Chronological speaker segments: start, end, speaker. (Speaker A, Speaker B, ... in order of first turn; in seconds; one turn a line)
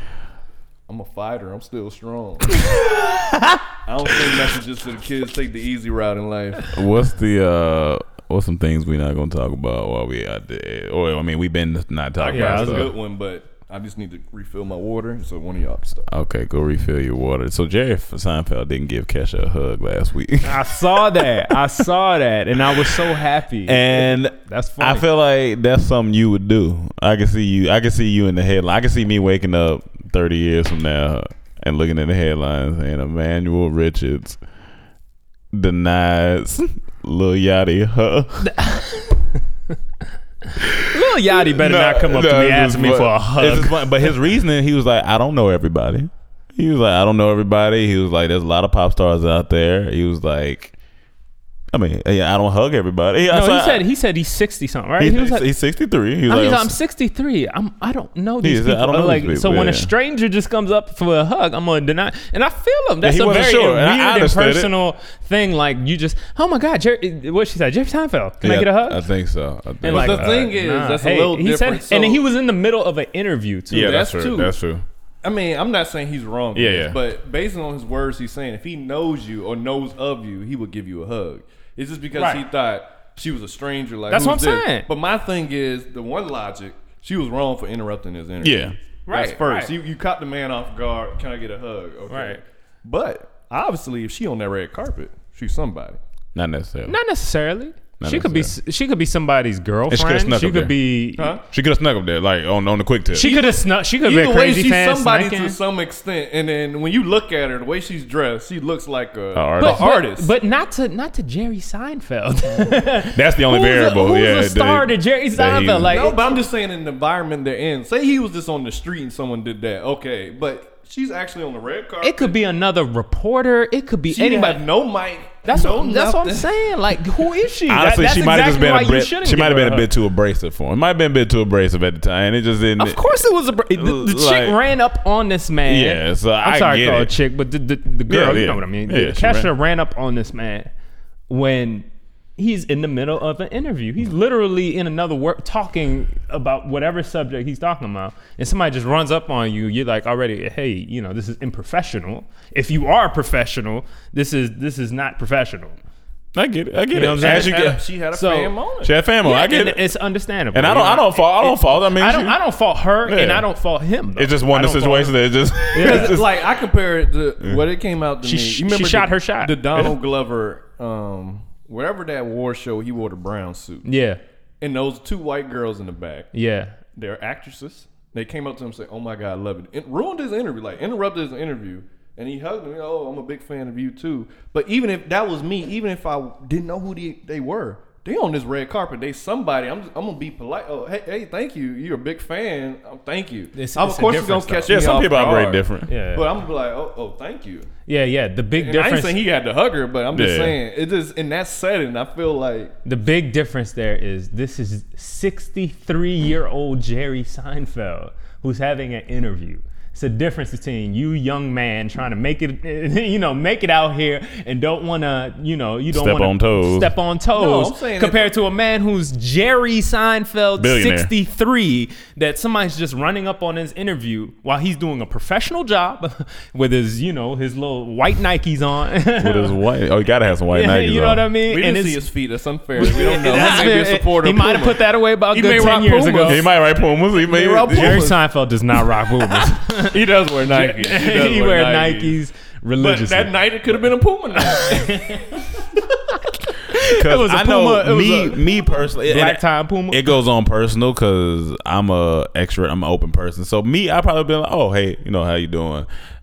Speaker A: 0.9-2.7
Speaker B: 3.0-3.6
Speaker A: 3.9-6.7
Speaker C: 6.7-12.9
Speaker A: 12.2-16.1
Speaker B: 12.3-12.9
Speaker C: 16.1-21.8
Speaker B: 20.4-25.1
Speaker C: 22.7-34.4
Speaker C: 35.5-38.5
Speaker B: 38.4-39.4
Speaker C: 40.6-50.7
Speaker B: 40.9-44.1
Speaker C: 51.7-53.8
Speaker B: 53.3-55.5
Speaker C: 55.0-56.7
Speaker B: 56.3-69.0
Speaker C: 58.4-59.9
Speaker C: 63.0-64.7
Speaker C: 68.4-70.4
Speaker B: 69.8-74.0
Speaker A: 69.9-72.2
Speaker C: 73.7-74.8
Speaker A: 73.7-74.5
Speaker A: 75.2-96.0
Speaker C: 76.5-77.0
Speaker B: 82.1-82.4
Speaker B: 84.1-84.9
Speaker C: 88.4-88.7
Speaker B: 89.1-89.7
Speaker B: 92.1-92.4
Speaker C: 96.3-96.9
Speaker B: 96.9-101.4
Speaker C: 98.0-98.5
Speaker C: 99.9-100.7
Speaker A: 101.2-101.4
Speaker C: 101.5-103.3
Speaker B: 103.1-105.6
Speaker A: 103.2-110.3
Speaker C: 109.3-109.8
Speaker B: 109.6-116.4
Speaker C: 113.1-116.0
Speaker A: 115.8-122.3
Speaker B: 122.0-124.6
Speaker A: 124.1-126.5
Speaker B: 125.4-129.9
Speaker C: 127.7-134.6
Speaker B: 132.8-140.7
Speaker C: 135.7-137.1
Speaker C: 138.1-139.5
Speaker B: 141.3-141.8
Speaker B: 142.4-155.8
Speaker C: 156.3-157.8
Speaker B: 156.9-158.5
Speaker A: 157.1-158.9
Speaker C: 158.8-159.8
Speaker B: 159.2-165.2
Speaker C: 160.5-162.4
Speaker C: 163.0-163.5
Speaker C: 164.2-166.4
Speaker B: 165.7-166.2
Speaker A: 165.8-173.9
Speaker B: 168.2-169.8
Speaker B: 173.8-174.2
Speaker A: 174.6-176.3
Speaker B: 176.3-176.8
Speaker A: 176.9-197.7
Speaker B: 193.5-194.8
Speaker C: 194.7-195.9
Speaker B: 195.9-196.2
Speaker B: 197.9-199.2
Speaker A: 198.6-202.8
Speaker C: 200.1-200.6
Speaker B: 202.8-229.6
Speaker C: 215.9-216.9
Speaker A: 217.3-218.3
Speaker C: 220.6-221.1
Speaker C: 229.2-231.3
Speaker B: 230.5-232.0
Speaker A: 231.5-236.5
Speaker B: 232.8-236.4
Speaker C: 236.2-238.1
Speaker A: 237.2-238.2
Speaker B: 237.7-243.3
Speaker A: 239.8-242.2
Speaker A: 242.8-245.2
Speaker B: 244.4-250.1
Speaker C: 246.9-255.9